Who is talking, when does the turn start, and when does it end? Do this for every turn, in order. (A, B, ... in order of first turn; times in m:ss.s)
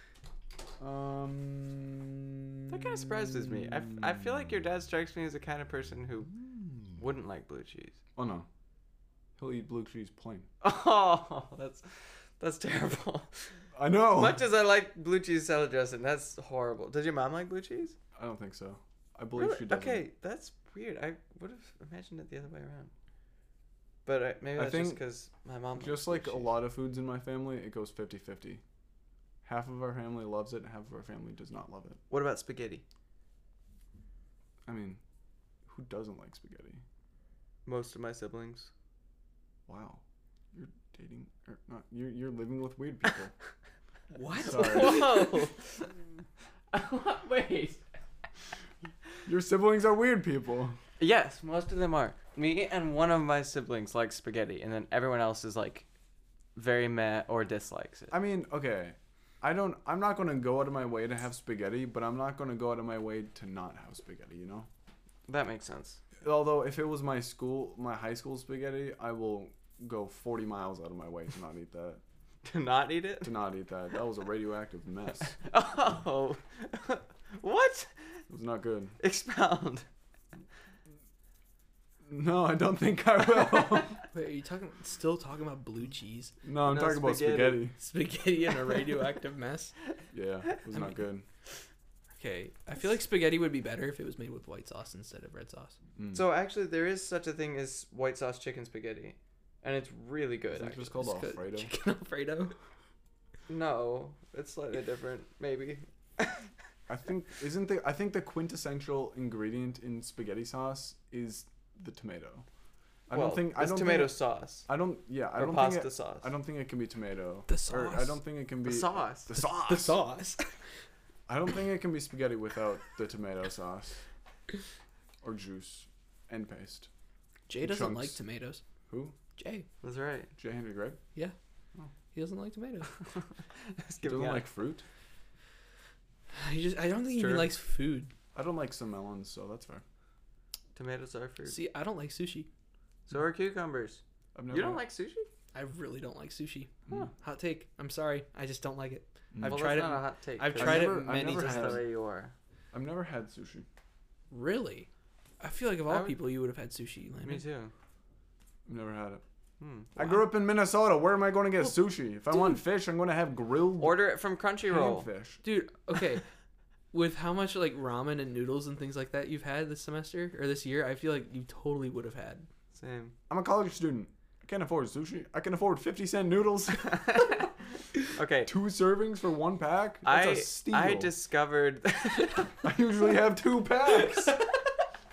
0:00.8-0:03.0 A
0:02.7-0:06.3 B
0:07.0-0:08.0 B
0:08.2-0:08.5 A
0:09.4-0:10.5 A
0:10.6-0:13.5 B
0:13.8-0:14.4 A
0:14.1-0:18.0 B
0:18.2-0:20.0 A
0:19.4-0:22.9 B
0:24.0-0:26.6 B
0:24.6-0:25.0 A
0:25.8-0:28.6 A
0:29.4-0:32.0 A
0:32.1-0:32.8 B
0:34.7-0:35.0 A
0:35.7-0:36.8 A
0:37.7-0:38.7 B
0:39.7-0:40.0 A
0:40.5-0:43.3 A
0:44.1-0:45.4 C
0:44.4-0:45.1 A
0:44.5-0:45.9 B
0:46.7-0:47.8 B
0:49.3-0:50.8 A
0:51.0-0:55.9 B
0:56.6-0:58.1 B
0:58.1-1:04.7 A
1:05.3-1:06.0 B
1:06.2-1:12.0 A
1:12.4-1:13.3 B
1:13.2-1:15.4 A
1:15.4-1:17.9 B
1:18.3-1:19.0 A
1:19.0-1:19.9 B
1:22.1-1:24.0 A
1:24.1-1:26.4 C
1:26.4-1:27.8 A
1:26.6-1:27.6 B
1:27.8-1:29.7 C
1:30.1-1:31.3 A
1:32.2-1:35.8 C
1:36.0-1:36.3 A
1:36.1-1:40.9 B
1:40.5-1:41.7 A
1:40.9-1:42.5 C
1:43.5-1:46.5 B
1:46.9-1:52.5 A
1:53.1-2:00.0 A
1:53.1-1:54.7 B
1:55.4-1:56.3 B
1:57.5-1:58.2 C
1:58.6-1:59.3 B
1:59.4-2:00.5 C
2:01.3-2:04.0 A
2:05.2-2:06.9 A
2:07.5-2:08.6 C
2:07.6-2:08.2 A
2:08.9-2:09.2 A
2:09.4-2:09.7 C
2:09.8-2:10.3 B
2:10.4-2:11.0 A
2:12.1-2:13.0 C
2:13.6-2:14.5 B
2:14.0-2:14.8 A
2:16.4-2:18.1 C
2:17.1-2:17.5 B
2:18.3-2:19.8 A
2:20.7-2:21.6 B
2:21.5-2:22.5 C
2:23.1-2:25.3 B
2:24.4-2:24.8 A
2:25.5-2:31.8 C
2:29.3-2:29.7 A
2:29.4-2:32.3 B
2:30.6-2:31.8 A
2:32.7-2:33.7 A
2:34.3-2:34.9 C
2:35.4-2:37.4 C
2:35.9-2:36.2 B
2:37.2-2:37.7 B
2:38.7-2:39.2 A
2:39.6-2:39.9 B
2:40.0-2:44.0 A
2:43.8-2:45.1 B
2:44.6-2:45.4 A
2:45.4-2:46.2 C
2:46.9-2:52.5 C
2:52.7-2:53.2 B
2:53.3-2:57.1 A
2:56.7-2:57.5 B
2:58.1-2:58.5 B
2:58.5-3:01.1 A
3:00.0-3:02.5 B
3:02.6-3:04.4 A